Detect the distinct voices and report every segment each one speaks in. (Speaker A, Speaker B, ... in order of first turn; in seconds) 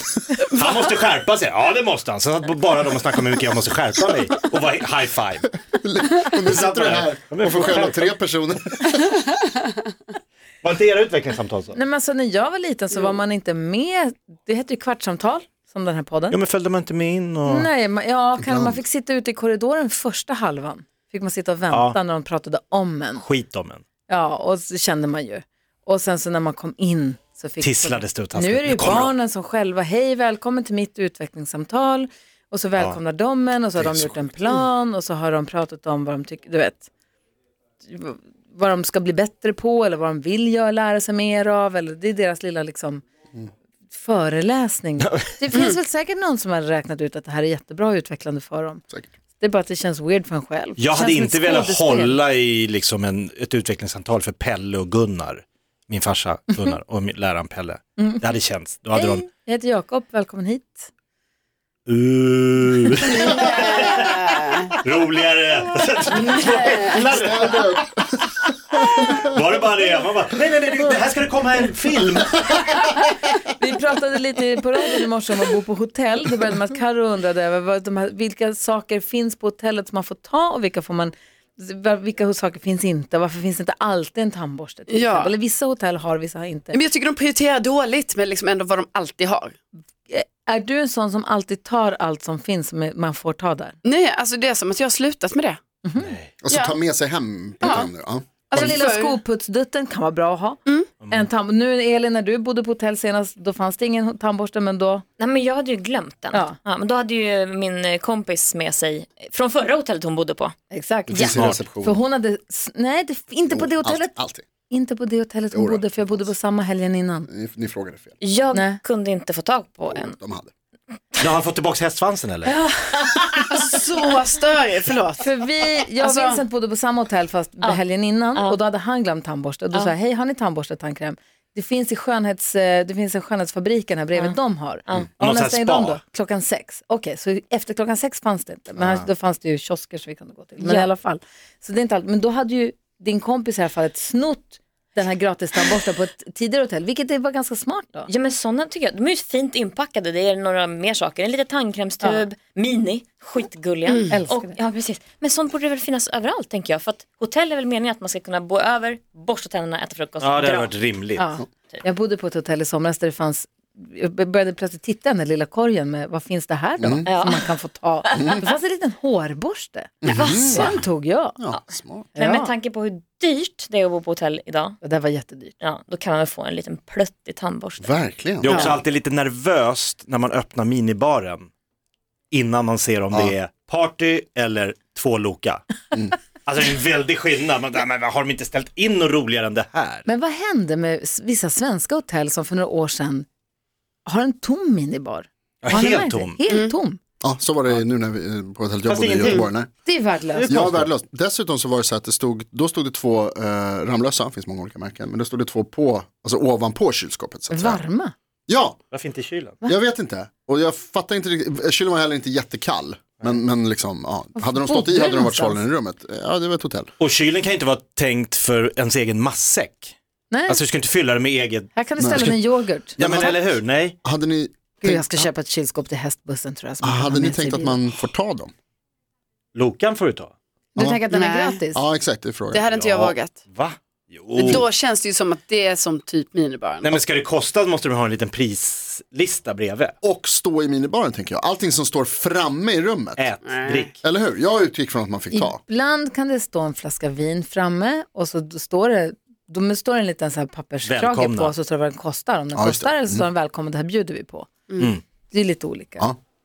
Speaker A: 0.4-5.5, 6.4-8.1, 10.6-11.8, 16.3-17.7, 21.7-22.0, 23.2-23.8, 27.6-29.1, 45.0-45.3, 50.8-59.3, 61.9-67.8, 68.7-72.8, 96.0-96.3, 111.1-111.6, 121.2-122.5, 135.2-136.0, 160.2-161.3, 178.4-181.5, 182.3-185.6, 186.4-190.1, 195.6-196.4, 198.9-199.4, 200.3-200.9, 208.9-209.6, 217.0-219.9, 220.5-221.7, 223.0-224.0, 229.5-230.3, 233.5-234.7, 236.8-239.9, 243.2-244.0, 250.8-251.5
Speaker B: 5.7-9.1, 18.4-18.8, 67.1-68.2, 68.7-69.4, 96.4-98.8, 111.1-112.0, 113.5-114.5, 115.5-116.3, 117.3-118.2, 119.9-120.5, 166.8-167.1, 170.0-170.8, 171.4-172.1, 177.8-178.8, 197.2-199.7, 200.5-207.8, 208.5-208.8, 209.6-216.9, 222.0-222.4, 223.0-223.4, 224.0-225.2, 226.8-228.5, 231.7-233.1, 240.0-243.2, 244.0-245.6, 252.5-253.2
Speaker C: 11.7-16.4, 17.4-23.2, 24.1-36.9, 37.9-43.0, 43.9-48.8, 49.4-52.2, 58.0-58.2, 58.9-60.9, 73.5-86.8, 90.1-93.8, 95.8-96.1, 98.5-105.0, 106.3-106.6, 110.7-114.1, 114.7-117.3, 118.5-118.8, 122.5-123.6, 125.2-148.1, 154.1-154.5, 161.2-171.4, 172.2-172.5, 174.8-175.5, 190.1-193.2, 194.1-197.0, 199.8-200.5, 207.5-208.1, 214.4-215.6, 220.3-220.6, 221.8-223.3, 224.8-227.8, 230.8-231.8, 245.3-254.5, 255.3-256.1
Speaker D: 63.4-64.7, 66.2-67.1, 84.9-85.3, 86.7-89.5, 93.8-95.6, 96.5-96.8, 97.6-97.9, 98.5-99.2, 123.5-125.2, 126.0-126.4, 231.1-231.6, 232.5-233.4, 234.3-237.0, 243.4-243.9
Speaker E: 105.2-110.5, 118.2-120.1, 140.6-140.9, 148.1-160.7, 167.1-167.5, 168.1-168.4, 170.1-170.7, 172.2-174.8, 175.6-177.9